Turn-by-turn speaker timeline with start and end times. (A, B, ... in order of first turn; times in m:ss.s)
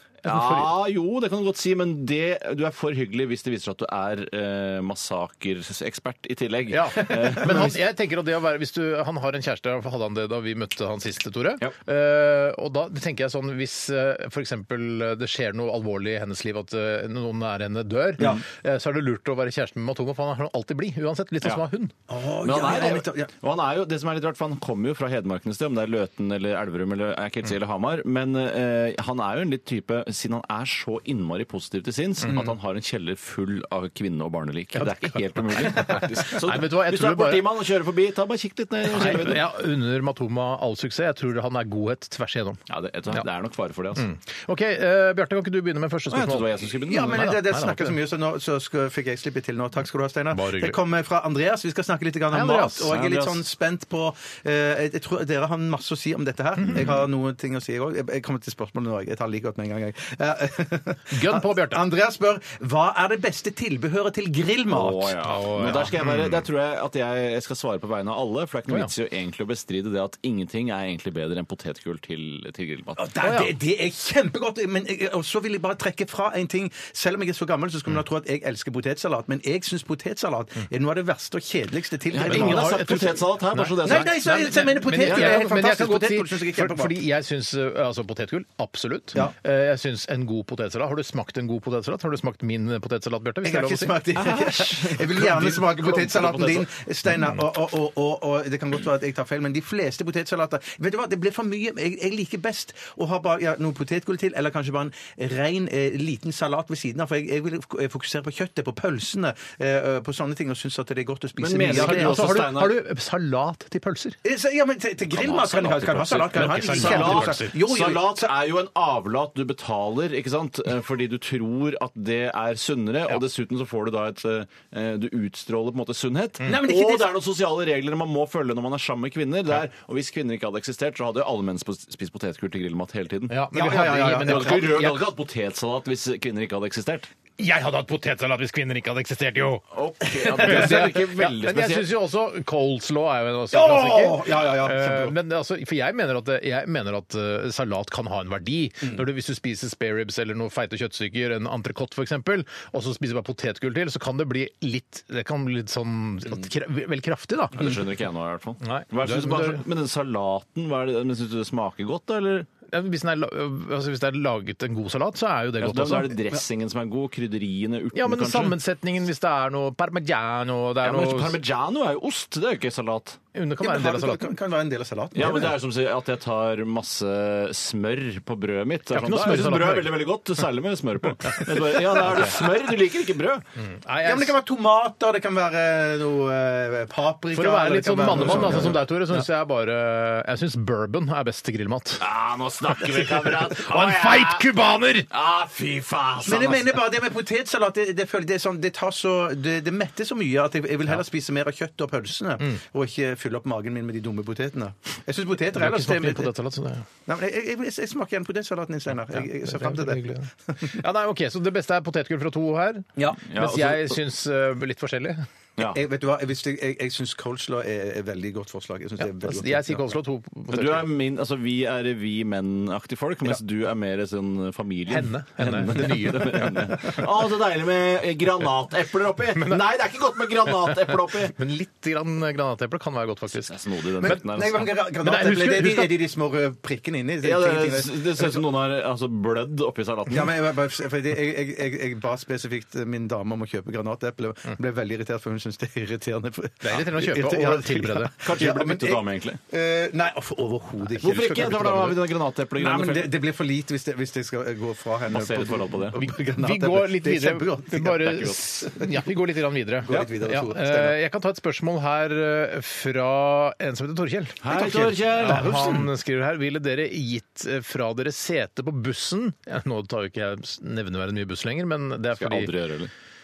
0:00.2-0:00.7 A
0:00.2-0:07.8 B
0:06.7-0:21.9 A
0:07.1-0:07.5 C
0:22.1-0:23.3 C
0:22.4-0:39.4 B
0:34.8-0:37.4 A
0:38.9-0:42.6 A
0:42.7-0:44.0 B
0:44.0-0:48.0 A
0:46.1-0:47.3 B
0:46.9-1:05.2 C
0:50.3-0:50.8 A
0:52.3-0:52.9 A
0:52.9-0:53.4 B
0:56.6-0:56.8 A
1:01.1-1:01.8 A
1:04.7-1:13.1 B
1:05.2-1:06.4 A
1:13.0-1:23.1 C
1:13.2-1:13.5 A
1:22.1-1:25.4 B
1:22.2-1:34.0 A
1:23.8-1:27.0 C
1:33.4-1:52.4 C
1:34.1-1:36.7 B
1:51.4-1:52.8 B
1:51.7-1:54.2 A
1:54.2-1:58.3 C
1:55.1-2:17.1 B
1:56.3-1:57.5 A
2:06.4-2:07.1 C
2:13.3-2:15.0 A
2:13.5-2:14.8 C
2:17.4-2:19.6 A
2:19.7-2:21.9 B
2:20.2-2:37.8 A
2:23.5-2:25.1 C
2:37.5-2:42.5 B
2:38.6-2:39.6 A
2:42.7-2:46.2 A
2:45.6-2:48.6 B
2:47.9-2:51.4 A
2:50.8-2:53.2 B
2:53.3-2:54.3 A
2:53.6-2:55.5 C
2:55.1-3:03.4 B
2:58.9-3:00.0 A
3:03.6-3:04.3 A
3:04.0-3:08.8 C
3:07.3-3:12.0 A
3:08.3-3:08.7 B
3:12.0-3:14.5 B
3:12.8-3:15.1 A
3:15.1-3:16.8 B
3:16.2-3:26.3 C
3:25.5-3:26.8 A
3:27.0-3:30.7 C
3:29.1-3:35.2 A
3:33.2-3:34.0 B
3:35.7-3:39.8 C
3:39.0-3:40.9 A
3:40.5-3:51.4 B
3:44.9-3:47.0 A
3:50.7-3:53.5 A
3:53.3-3:54.7 B
3:54.0-3:58.4 C
3:54.8-3:55.9 A
3:57.2-4:00.3 B
4:00.1-4:18.8 C
4:06.6-4:08.1 A
4:08.2-4:09.4 B
4:11.0-4:13.1 B
4:15.1-4:16.0 B
4:16.0-4:32.5 A
4:18.0-4:18.4 B
4:19.8-4:21.0 C
4:24.4-4:25.8 B
4:24.6-4:25.9 C
4:32.2-4:32.9 B